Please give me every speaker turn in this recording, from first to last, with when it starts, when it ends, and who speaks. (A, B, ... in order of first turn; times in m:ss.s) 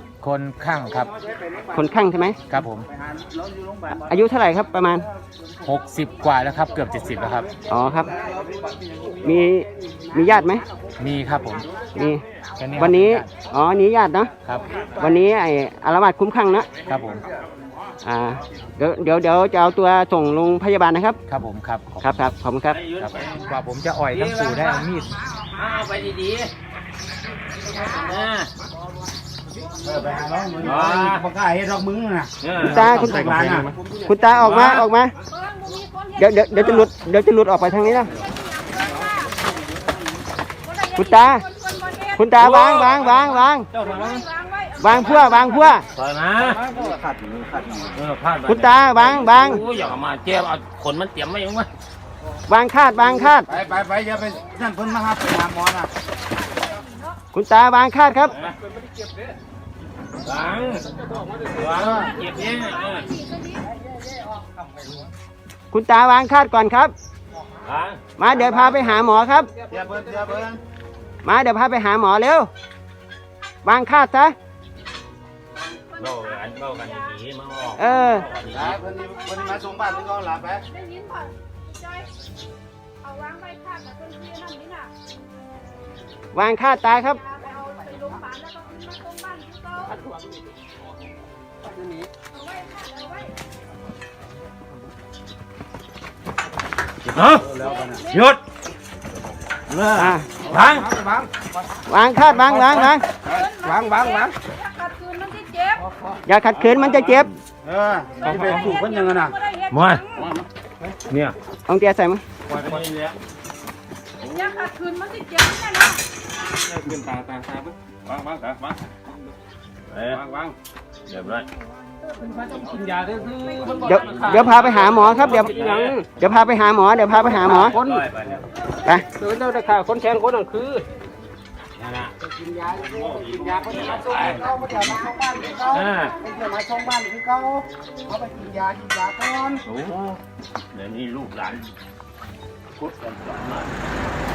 0:00.2-0:01.1 A
0:01.7-0:02.4 B
0:02.5-0:02.9 A
0:03.9-0:05.1 B
0:05.6-0:07.5 A
0:07.7-0:08.1 B
0:09.2-0:10.6 B
0:11.0-0:11.7 A
0:12.0-0:12.2 B
0:12.6-0:13.3 A
0:12.8-0:14.3 B
0:15.0-0:16.7 B
0:16.9-0:17.3 A
0:18.0-0:21.2 B
0:21.3-0:22.2 A
0:22.0-0:22.8 B
0:22.7-0:23.5 C
0:23.0-0:25.2 A
0:25.6-0:26.5 C
0:27.7-0:28.5 C
0:29.8-0:33.7 D
0:30.5-0:31.3 C
0:32.4-0:32.8 C
0:32.6-0:35.1 B
0:34.4-0:34.9 C
0:35.4-0:36.1 E
0:36.2-0:38.2 B
0:38.4-0:39.1 E
0:41.0-0:41.5 B
0:41.5-0:42.1 E
0:42.2-0:43.7 B
0:42.4-0:44.2 C
0:44.0-0:44.8 E
0:44.8-0:45.9 B
0:45.9-0:46.8 C
0:47.4-0:51.7 C
0:48.5-0:49.6 B
0:52.5-0:53.5 B
0:53.6-0:55.9 D
0:57.3-0:58.4 B
1:00.2-1:03.1 C
1:01.9-1:03.6 E
1:05.7-1:06.9 B
1:07.6-1:08.0 C
1:08.2-1:09.5 B
1:09.7-1:10.6 D
1:11.2-1:12.5 B
1:13.6-1:14.4 B
1:16.0-1:18.9 C
1:17.8-1:18.3 B
1:18.5-1:20.6 D
1:20.7-1:21.3 E
1:23.0-1:24.9 E
1:26.3-1:27.2 B
1:27.4-1:30.0 E
1:32.3-1:33.3 E
1:37.1-1:37.6 C
1:37.6-1:38.0 D
1:37.6-1:38.1 E
1:38.1-1:38.4 C
1:39.7-1:41.3 C
1:40.0-1:40.3 B
1:41.9-1:43.0 B
1:43.3-1:45.8 E
1:43.5-1:44.4 C
1:46.2-1:47.3 B
1:46.7-1:47.3 C
1:47.6-1:49.4 D
1:48.4-1:49.7 E
1:49.7-1:51.4 C
1:51.7-1:52.2 B
1:52.5-1:53.2 C
1:54.2-1:54.7 C
1:54.4-1:56.0 E
1:56.5-1:58.8 C
1:59.9-2:00.5 C
2:01.1-2:01.5 C
2:02.2-2:06.0 C
2:03.8-2:05.6 B
2:06.1-2:07.8 B
2:07.5-2:08.5 C
2:08.8-2:09.1 B
2:09.2-2:10.9 C
2:11.8-2:12.1 C
2:12.8-2:14.8 C
2:14.2-2:19.6 D
2:15.6-2:16.2 C
2:19.6-2:20.2 C
2:20.7-2:21.7 C
2:22.8-2:23.7 C